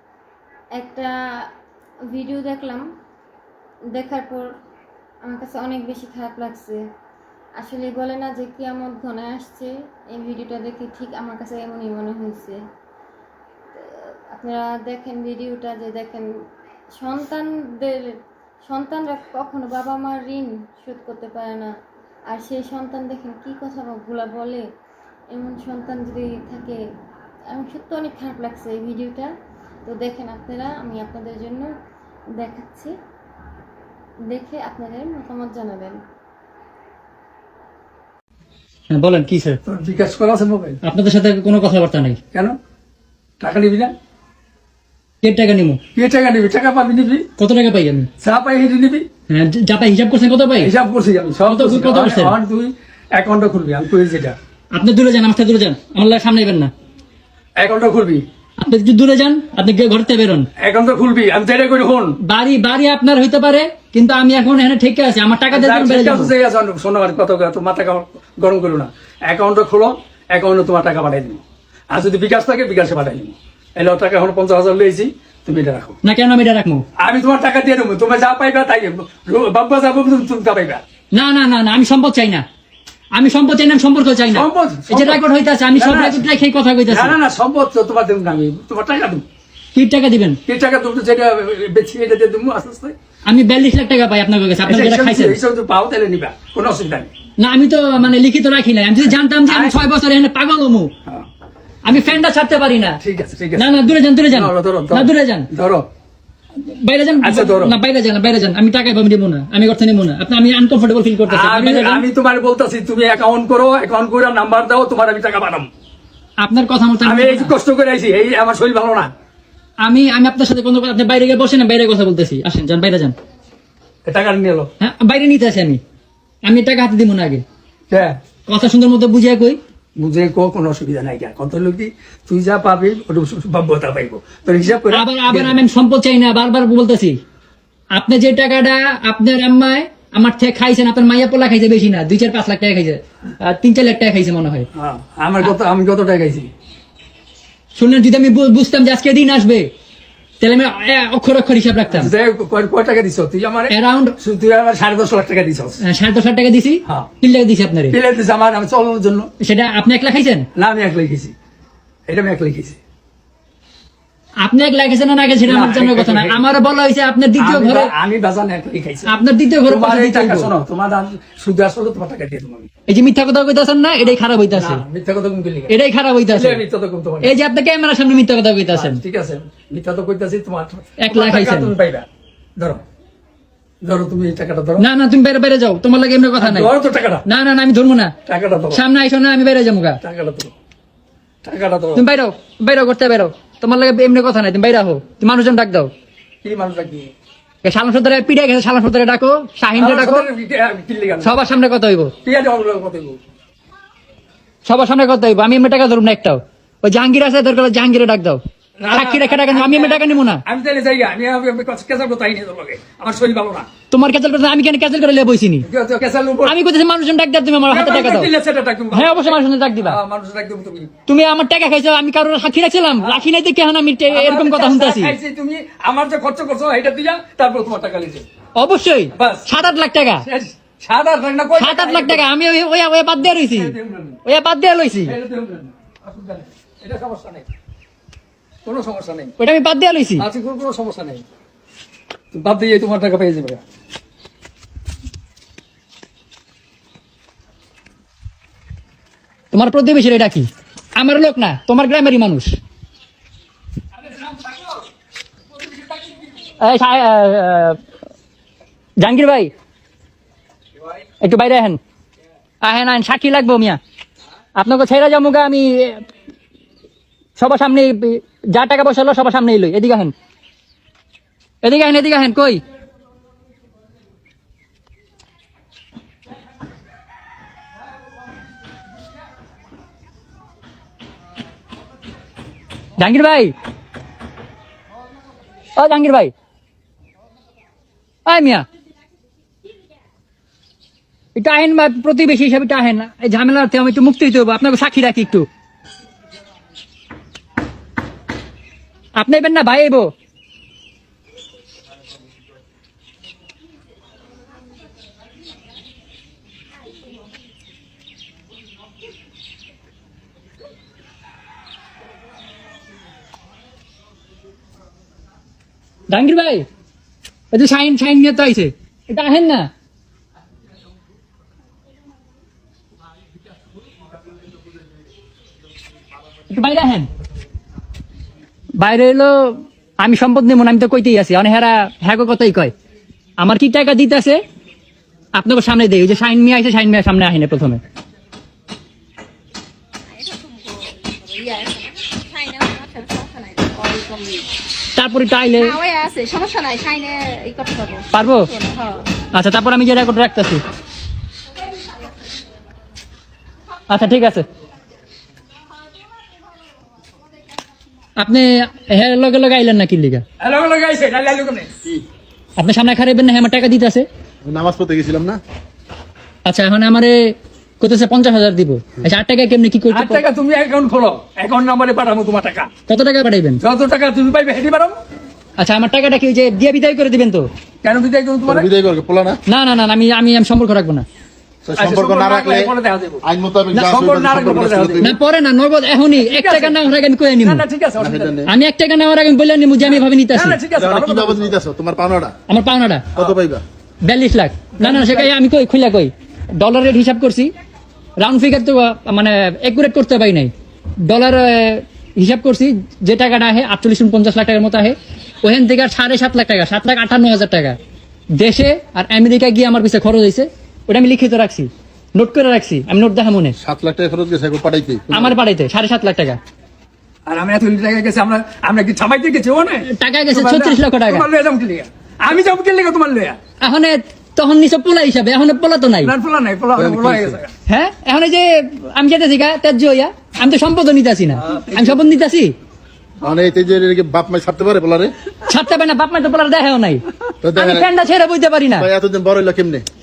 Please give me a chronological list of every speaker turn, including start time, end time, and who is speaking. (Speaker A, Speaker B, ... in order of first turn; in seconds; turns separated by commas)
Speaker A: 0.7-1.5, Speaker A: 2.1-2.9, Speaker A: 3.9-4.5, Speaker A: 5.2-6.8, Speaker A: 7.6-12.6, Speaker A: 13.7-16.3, Speaker A: 17.0-21.7, Speaker A: 22.3-24.6, Speaker A: 25.3-26.8, Speaker A: 27.5-29.3, Speaker A: 29.9-31.7, Speaker A: 32.4-32.9, Speaker A: 34.3-36.0, Speaker B: 38.9-39.6, Speaker C: 39.6-40.8, Speaker B: 40.8-42.2, Speaker C: 43.4-43.9, Speaker B: 45.2-45.8, Speaker C: 46.0-47.3, Speaker B: 47.4-48.1, Speaker C: 48.2-49.1, Speaker B: 49.3-50.7, Speaker C: 50.6-54.4, Speaker B: 51.5-52.4, Speaker B: 54.7-56.7, Speaker C: 57.6-58.2, Speaker B: 58.6-60.5, Speaker C: 60.6-62.1, Speaker B: 62.2-66.3, Speaker C: 65.5-76.0, Speaker B: 76.0-76.8, Speaker C: 77.0-80.8, Speaker B: 81.1-82.4, Speaker B: 83.1-87.2, Speaker C: 84.3-85.2, Speaker C: 85.7-86.2, Speaker C: 86.9-89.2, Speaker B: 89.7-90.4, Speaker C: 90.5-92.9, Speaker B: 93.3-95.4, Speaker C: 94.7-97.1, Speaker B: 97.4-100.9, Speaker C: 99.5-99.8, Speaker B: 101.8-103.0, Speaker C: 103.0-105.9, Speaker B: 103.6-105.5, Speaker B: 106.6-112.0, Speaker C: 107.2-107.7, Speaker C: 111.3-115.7, Speaker B: 116.4-117.5, Speaker C: 117.0-119.1, Speaker B: 119.8-123.2, Speaker C: 124.0-124.7, Speaker B: 124.8-125.8, Speaker B: 126.4-127.4, Speaker C: 127.9-128.2, Speaker B: 128.5-129.6, Speaker C: 130.0-135.6, Speaker B: 134.9-137.2, Speaker B: 137.9-144.7, Speaker C: 144.8-146.5, Speaker B: 147.7-149.7, Speaker B: 150.4-152.1, Speaker C: 151.9-155.8, Speaker B: 153.7-154.2, Speaker B: 155.8-158.0, Speaker C: 156.8-157.1, Speaker C: 157.9-159.3, Speaker B: 159.4-160.5, Speaker C: 160.6-161.3, Speaker C: 162.1-162.8, Speaker B: 164.4-167.9, Speaker C: 165.4-166.5, Speaker C: 167.4-169.1, Speaker B: 169.1-170.5, Speaker C: 169.7-172.7, Speaker B: 172.9-174.8, Speaker C: 174.5-175.7, Speaker B: 175.7-176.6, Speaker C: 176.3-177.3, Speaker B: 177.2-179.0, Speaker C: 178.7-182.1, Speaker B: 181.0-181.7, Speaker C: 182.6-182.8, Speaker C: 183.8-184.8, Speaker B: 184.8-188.2, Speaker C: 186.4-187.2, Speaker C: 188.2-188.8, Speaker B: 188.7-190.0, Speaker C: 190.0-190.5, Speaker C: 191.4-192.1, Speaker B: 191.9-195.9, Speaker C: 196.4-197.1, Speaker B: 197.6-200.3, Speaker C: 199.8-201.3, Speaker B: 201.2-202.1, Speaker C: 202.2-203.2, Speaker B: 204.6-210.4, Speaker C: 208.8-213.7, Speaker B: 213.9-215.7, Speaker C: 215.6-216.5, Speaker B: 216.4-218.3, Speaker C: 217.7-220.9, Speaker B: 218.9-220.0, Speaker B: 221.1-225.2, Speaker C: 224.1-228.3, Speaker B: 228.6-230.3, Speaker C: 229.2-229.5, Speaker C: 230.2-232.2, Speaker B: 231.6-235.2, Speaker C: 233.3-234.2, Speaker C: 235.1-237.5, Speaker C: 238.6-239.3, Speaker B: 239.4-240.3, Speaker C: 240.2-241.2, Speaker C: 242.3-243.6, Speaker B: 249.5-252.6, Speaker C: 254.0-254.8, Speaker B: 256.6-257.8, Speaker B: 259.0-259.5, Speaker B: 261.2-261.8, Speaker B: 262.6-263.8, Speaker B: 264.6-266.1, Speaker B: 267.4-270.1, Speaker B: 271.6-272.6, Speaker B: 283.0-283.5, Speaker B: 285.8-286.3, Speaker B: 288.2-288.6, Speaker B: 291.4-295.5, Speaker B: 299.2-300.1, Speaker B: 316.1-316.7, Speaker B: 317.5-319.7, Speaker B: 326.5-327.1, Speaker B: 328.8-332.7, Speaker B: 333.4-334.4, Speaker B: 335.4-337.8, Speaker D: 340.1-344.5, Speaker B: 344.9-345.8, Speaker D: 345.6-349.1, Speaker B: 348.1-348.5, Speaker B: 349.3-350.6, Speaker B: 353.9-354.4, Speaker B: 358.2-360.2, Speaker C: 360.4-361.7, Speaker B: 362.6-364.1, Speaker E: 364.4-365.4, Speaker B: 366.4-370.2, Speaker C: 369.9-372.7, Speaker B: 372.9-373.6, Speaker C: 373.6-375.0, Speaker B: 375.6-377.5, Speaker C: 377.8-378.7, Speaker E: 378.4-379.4, Speaker B: 379.5-381.1, Speaker E: 381.6-385.1, Speaker C: 381.8-383.2, Speaker C: 383.8-385.1, Speaker B: 385.0-387.6, Speaker C: 386.2-386.8, Speaker C: 387.4-388.4, Speaker E: 388.0-388.5, Speaker B: 388.4-390.6, Speaker C: 389.9-391.5, Speaker E: 390.8-392.3, Speaker B: 392.5-393.1, Speaker E: 393.1-393.6, Speaker B: 394.0-397.5, Speaker C: 394.8-395.3, Speaker B: 398.2-400.5, Speaker B: 401.0-407.8, Speaker B: 408.3-413.6, Speaker E: 413.6-415.4, Speaker B: 415.1-416.4, Speaker C: 417.3-423.4, Speaker B: 419.8-421.3, Speaker B: 423.6-426.1, Speaker C: 426.0-427.5, Speaker E: 426.8-427.4, Speaker B: 427.7-432.6, Speaker C: 431.4-432.1, Speaker E: 433.2-435.1, Speaker B: 435.4-437.0, Speaker E: 437.4-437.9, Speaker B: 437.5-438.9, Speaker E: 438.8-439.8